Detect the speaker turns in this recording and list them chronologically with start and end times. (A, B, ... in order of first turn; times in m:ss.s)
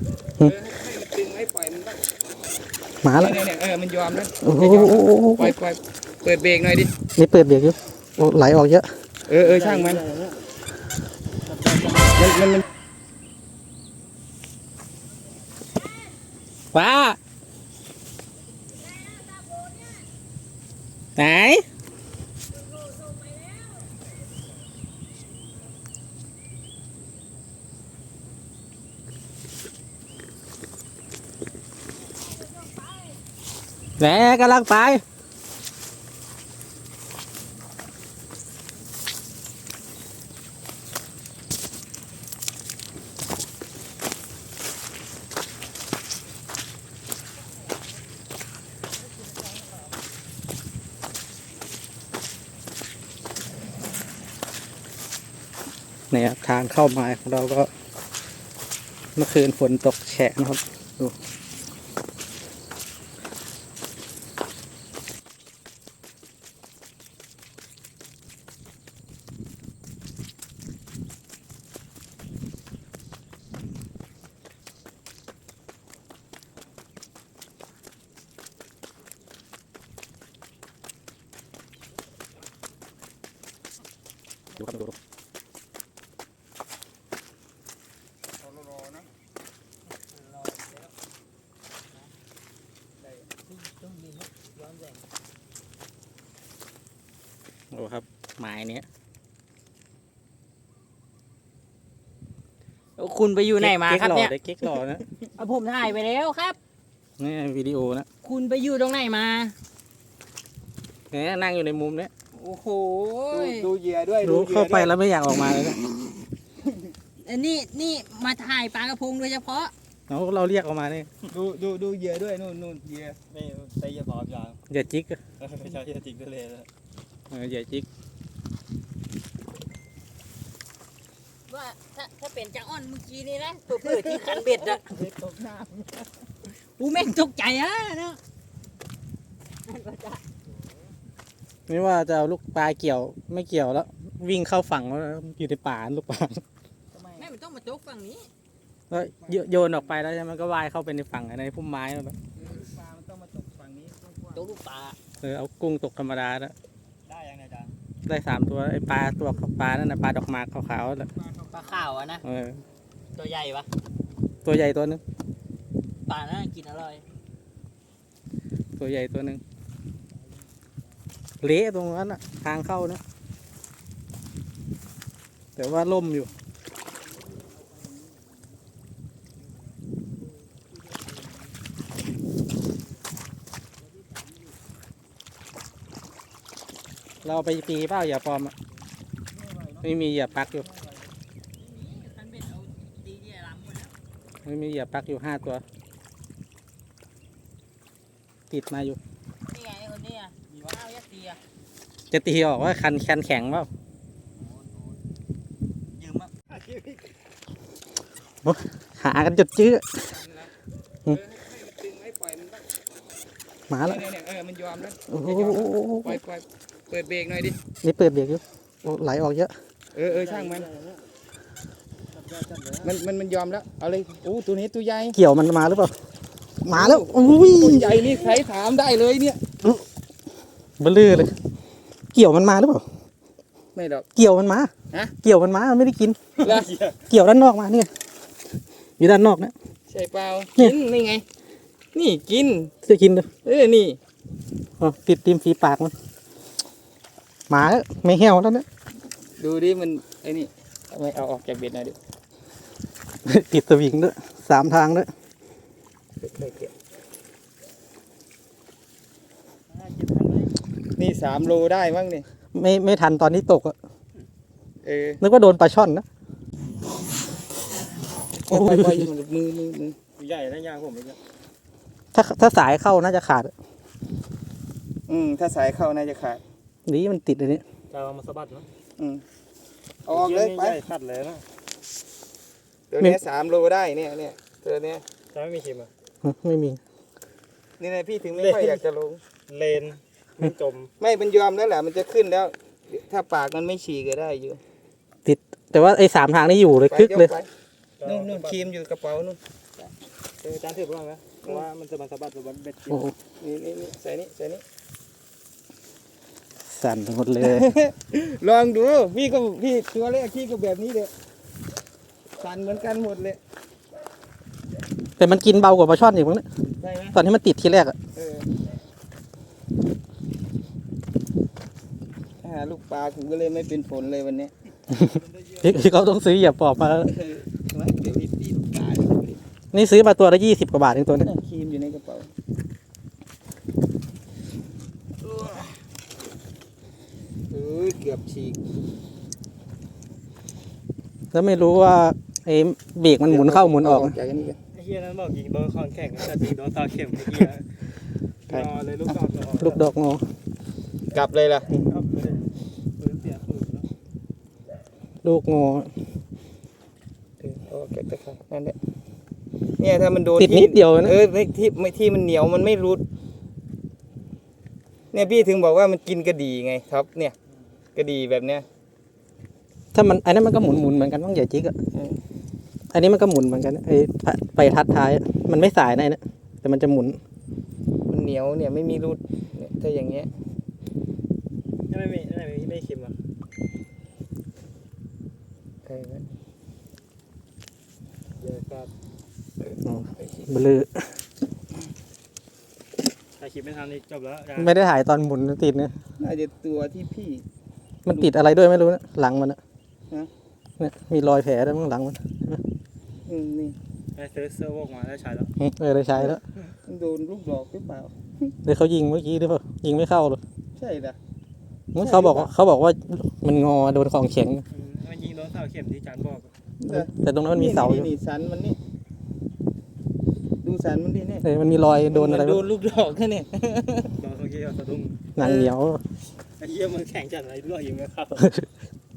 0:00.4-0:02.0 A
0:03.0-0:03.3 B
0:03.1-0:06.9 A
0:04.4-0:05.5 B
0:07.2-0:08.8 B
0:09.3-0:10.0 A
0:09.4-0:10.4 C
0:11.5-0:12.2 C
0:12.1-0:12.6 A
0:16.7-0:17.2 B
0:19.0-0:19.8 D
0:21.2-0:21.6 B
0:23.0-0:23.7 D
0:34.0-0:35.0 B
0:56.1-0:57.7 B
0:59.2-1:01.1 B
1:24.6-1:24.9 B
1:28.4-1:29.1 A
1:30.1-1:30.9 D
1:33.0-1:33.3 A
1:33.5-1:35.0 D
1:37.7-1:38.8 B
1:43.0-1:44.3 D
1:43.6-1:45.0 B
1:45.4-1:46.6 D
1:47.2-1:48.0 B
1:48.2-1:49.5 D
1:51.1-1:52.1 B
1:52.3-1:54.9 A
1:53.3-1:53.7 D
1:54.2-1:55.8 B
1:57.2-1:59.7 D
2:00.1-2:01.1 B
2:01.3-2:03.2 A
2:03.3-2:04.6 C
2:04.7-2:05.2 B
2:05.4-2:06.7 C
2:07.3-2:07.9 B
2:11.5-2:14.9 D
2:13.8-2:16.1 A
2:16.6-2:18.2 D
2:19.7-2:20.2 D
2:21.7-2:26.4 B
2:26.9-2:27.3 A
2:27.2-2:28.3 D
2:28.9-2:32.2 B
2:29.2-2:29.9 A
2:32.4-2:34.6 A
2:34.3-2:35.0 D
2:35.2-2:36.5 B
2:37.0-2:37.7 C
2:38.1-2:41.1 B
2:41.2-2:41.9 A
2:41.5-2:42.2 D
2:42.2-2:42.6 B
2:43.1-2:43.7 D
2:44.4-2:45.0 B
2:46.1-2:47.0 D
2:48.8-2:49.4 B
2:51.4-2:53.0 B
2:55.6-2:56.3 B
3:07.2-3:08.5 B
3:09.5-3:09.7 A
3:09.8-3:10.7 B
3:10.6-3:11.0 A
3:11.6-3:13.9 D
3:14.4-3:15.6 B
3:18.5-3:19.0 B
3:19.5-3:21.4 D
3:22.1-3:23.7 B
3:28.4-3:29.8 B
3:30.0-3:30.5 A
3:31.0-3:32.6 A
3:33.7-3:34.0 B
3:33.8-3:37.6 A
3:35.1-3:36.2 B
3:37.8-3:39.5 B
3:39.9-3:40.7 A
3:40.0-3:41.0 C
3:42.1-3:42.9 C
3:42.8-3:45.2 A
3:45.1-3:45.9 B
3:46.6-3:48.2 B
3:46.6-3:49.4 A
3:50.8-3:51.3 B
3:52.1-3:52.8 B
3:53.7-3:54.0 A
3:54.1-3:54.7 B
3:55.2-3:56.4 B
3:56.4-3:56.7 A
3:57.0-3:57.9 B
3:59.0-3:59.5 B
3:59.9-4:01.2 A
4:01.9-4:02.7 A
4:02.8-4:03.3 B
4:03.4-4:04.0 A
4:04.8-4:05.9 B
4:07.5-4:08.6 B
4:09.4-4:12.0 A
4:13.2-4:15.1 B
4:16.2-4:16.7 A
4:19.7-4:20.5 C
4:21.0-4:22.2 A
4:22.5-4:23.7 B
4:24.8-4:25.2 A
4:25.2-4:26.0 B
4:28.3-4:30.0 A
4:28.5-4:29.1 B
4:30.2-4:31.2 C
4:32.1-4:33.5 B
4:35.1-4:36.4 A
4:36.8-4:37.6 B
4:37.9-4:38.7 C
4:39.0-4:39.2 A
4:40.1-4:40.8 A
4:40.1-4:41.4 C
4:42.9-4:45.0 A
4:45.3-4:45.9 C
4:46.2-4:46.8 B
4:47.8-4:49.2 A
4:48.3-4:48.8 C
4:49.5-4:50.9 C
4:51.0-4:54.6 A
4:55.2-4:57.3 B
4:56.9-4:57.5 A
4:58.0-4:58.6 C
4:58.0-4:59.4 A
5:00.4-5:03.0 C
5:02.9-5:03.1 B
5:03.4-5:04.6 A
5:06.7-5:07.6 B
5:07.4-5:11.1 A
5:12.4-5:13.4 A
5:15.2-5:16.4 B
5:16.8-5:17.2 A
5:17.1-5:17.9 B
5:18.1-5:18.5 A
5:22.4-5:24.5 A
5:24.9-5:27.1 B
5:25.2-5:25.6 C
5:27.0-5:29.4 A
5:29.7-5:31.3 B
5:31.1-5:32.3 A
5:35.2-5:35.8 A
5:37.5-5:38.7 A
5:41.3-5:44.1 B
5:43.2-5:44.6 A
5:44.7-5:47.6 C
5:48.5-5:49.8 C
5:49.6-5:50.2 B
5:51.1-5:51.8 A
5:51.7-5:52.4 C
5:53.0-5:53.9 C
5:55.2-5:55.9 B
5:57.4-5:58.8 A
5:59.8-6:03.0 A
6:00.4-6:01.1 B
6:05.1-6:07.3 A
6:07.9-6:08.6 A
6:09.9-6:11.7 B
6:11.9-6:12.2 A
6:12.9-6:17.2 B
6:18.1-6:20.3 A
6:21.9-6:23.1 C
6:25.8-6:26.3 A
6:28.4-6:28.9 C
6:29.8-6:31.0 B
6:33.4-6:34.7 C
6:34.6-6:35.9 B
6:36.2-6:37.4 A
6:38.0-6:39.6 B
6:40.8-6:42.6 B
6:43.2-6:43.8 A
6:44.1-6:45.5 C
6:45.6-6:46.4 B
6:46.2-6:48.5 A
6:48.6-6:50.4 B
6:50.8-6:51.2 A
6:51.9-6:54.6 B
6:51.9-6:52.5 A
6:54.7-6:56.5 C
6:56.8-6:58.8 A
6:56.9-6:58.1 B
7:00.6-7:01.4 A
7:01.4-7:02.6 B
7:02.1-7:04.1 A
7:04.2-7:05.2 C
7:05.4-7:06.0 B
7:05.4-7:05.7 A
7:06.6-7:08.5 C
7:08.4-7:08.7 B